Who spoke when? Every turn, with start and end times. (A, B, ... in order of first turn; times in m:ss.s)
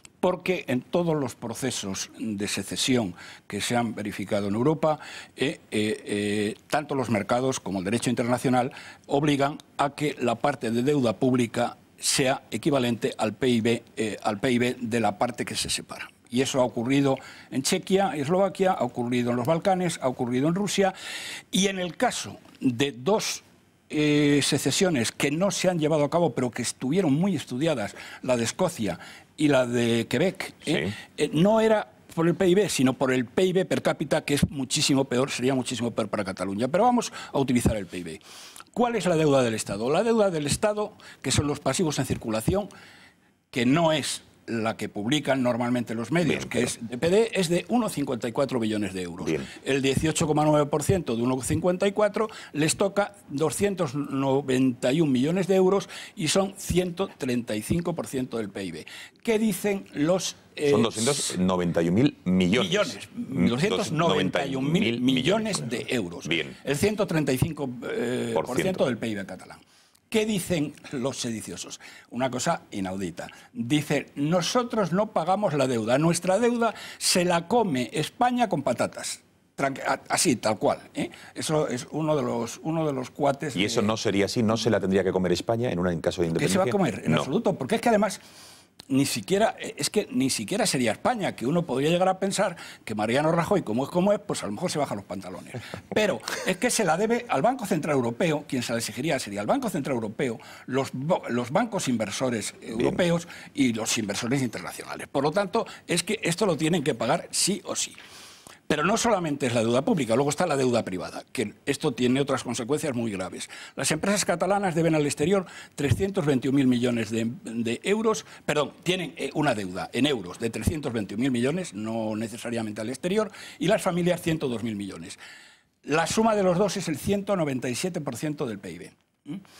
0:00.2-0:20.9 A
0:21.5-0:38.2 A
0:30.7-0:30.9 B
0:38.7-0:42.7 A
0:43.5-1:01.4 A
0:46.2-0:46.8 B
0:49.2-0:49.5 B
1:00.6-1:06.6 B
1:02.5-1:09.6 A
1:08.4-1:08.9 B
1:10.1-1:23.9 A
1:23.5-1:27.3 B
1:26.3-1:28.2 A
1:28.9-1:48.0 A
1:42.7-1:43.0 B
1:48.7-2:05.2 A
2:05.8-2:09.4 A